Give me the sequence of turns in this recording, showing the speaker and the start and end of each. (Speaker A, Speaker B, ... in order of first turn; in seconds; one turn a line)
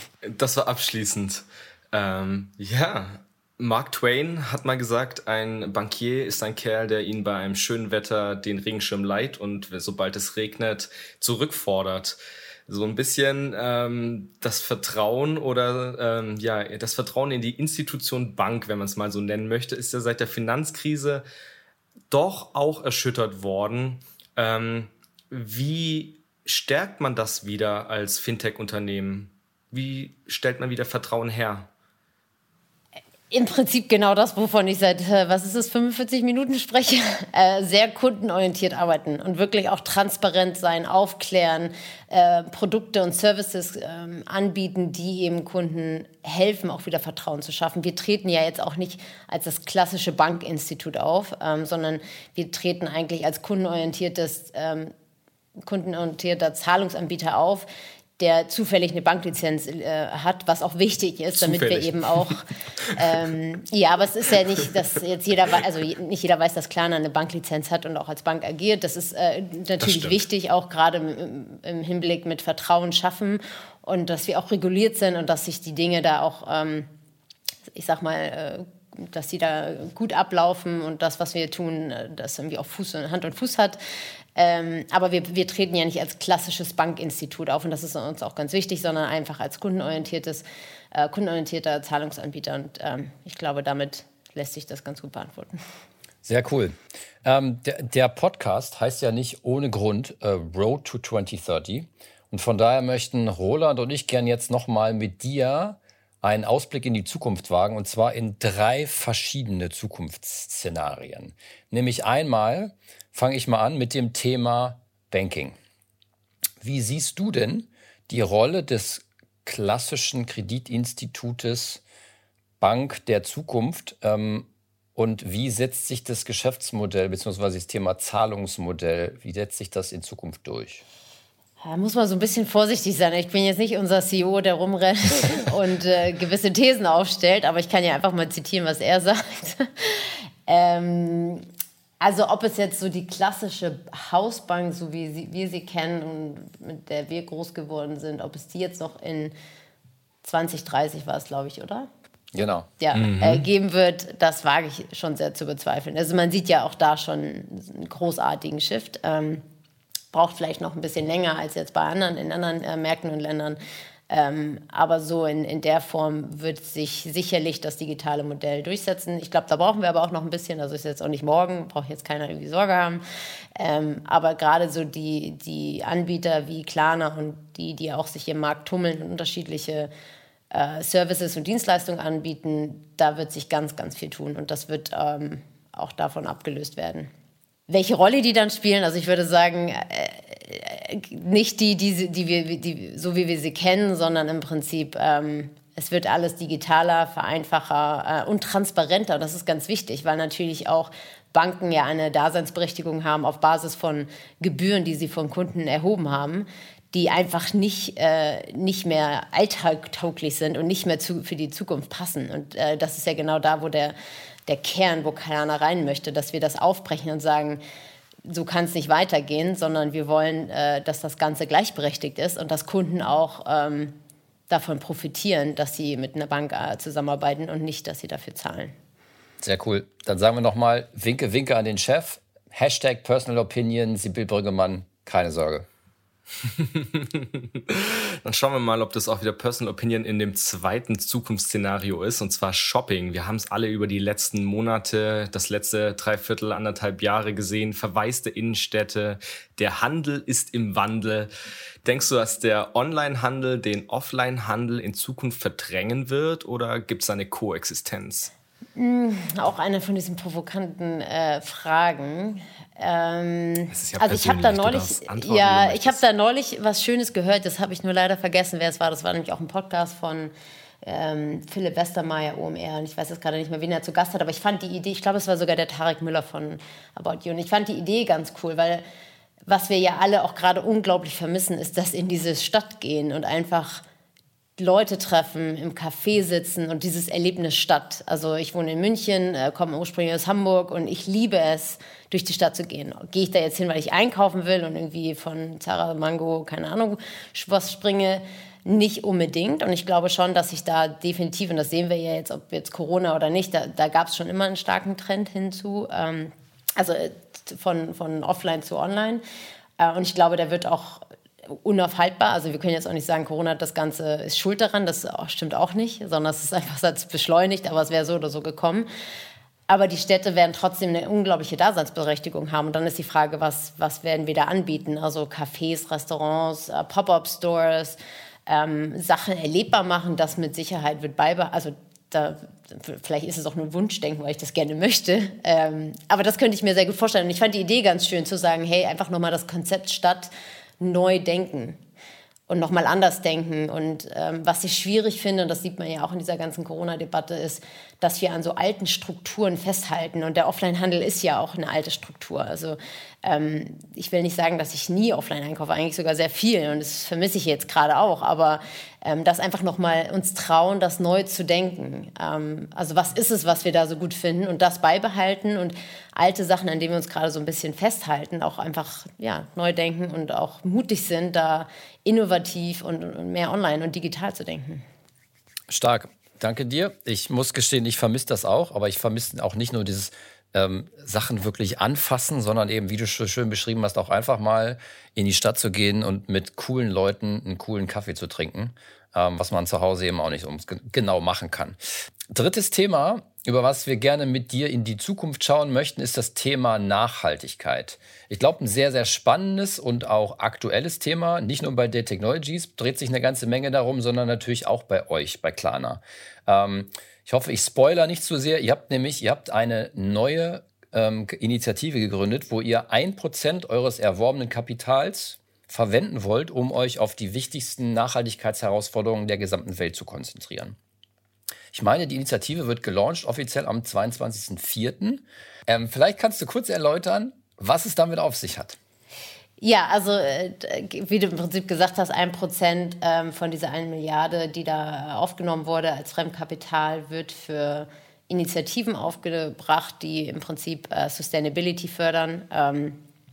Speaker A: 0.2-21.2
Speaker A: 22.1-31.7
Speaker B: 33.3-54.9
Speaker B: 55.6-57.7
Speaker B: 58.2-76.9
Speaker A: 61.4-62.4
Speaker A: 69.8-70.2
Speaker B: 77.7-83.8
Speaker B: 84.4-95.6
Speaker C: 96.2-115.6
Speaker C: 116.6-121.8
Speaker C: 122.6-130.8
Speaker B: 131.6-141.4
Speaker B: 142.0-149.3
Speaker B: 150.2-151.9
Speaker C: 152.3-152.7
Speaker B: 152.8-159.4
Speaker A: 152.9-153.5
Speaker B: 160.1-163.6
Speaker B: 164.1-173.0
Speaker B: 173.6-179.9
Speaker B: 180.5-187.1
Speaker B: 187.7-213.9
Speaker B: 214.5-217.6
Speaker B: 218.2-224.0
Speaker B: 224.5-228.8
Speaker C: 229.4-235.7
Speaker A: 236.4-251.3
Speaker A: 251.8-258.3
Speaker B: 258.8-270.3
Speaker A: 263.7-266.0
Speaker B: 270.8-278.8
Speaker B: 279.5-283.8
Speaker B: 284.6-309.2
Speaker B: 309.8-318.9
Speaker B: 319.7-341.8
Speaker B: 342.5-374.8
Speaker C: 375.7-391.8
Speaker C: 392.3-420.8
Speaker C: 421.7-428.8
Speaker B: 429.6-443.0